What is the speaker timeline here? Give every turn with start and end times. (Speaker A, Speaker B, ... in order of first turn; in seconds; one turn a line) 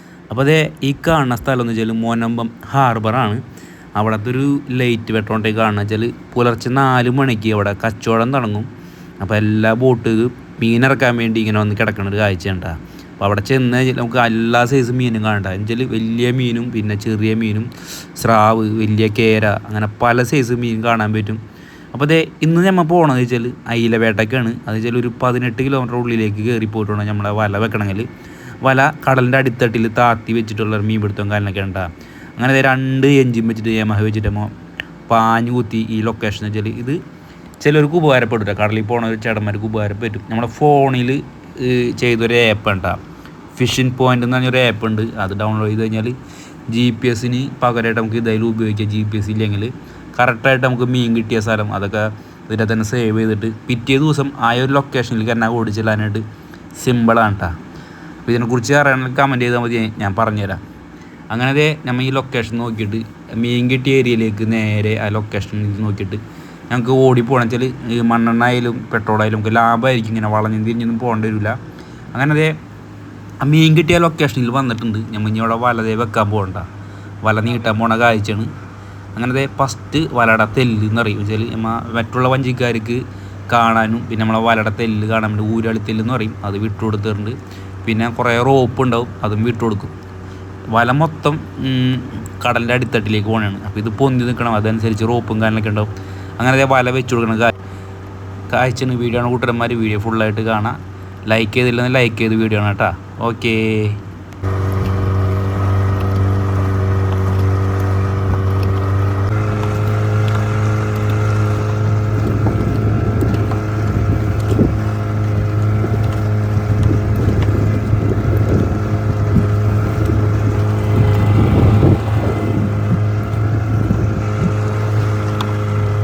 Speaker A: 0.3-3.4
Speaker A: 4.0-8.7
Speaker A: 9.2-21.4
Speaker A: 21.9-28.1
Speaker A: 28.6-34.5
Speaker A: 35.1-37.0
Speaker A: 37.6-43.0
Speaker A: 43.5-46.2
Speaker A: 46.7-56.2
Speaker A: 56.8-57.5
Speaker A: 58.3-60.6
Speaker A: 61.3-71.6
Speaker A: 72.1-72.6
Speaker A: 73.4-76.7
Speaker A: 77.2-78.5
Speaker A: 79.2-89.9
Speaker A: 90.7-97.5
Speaker A: 98.5-104.0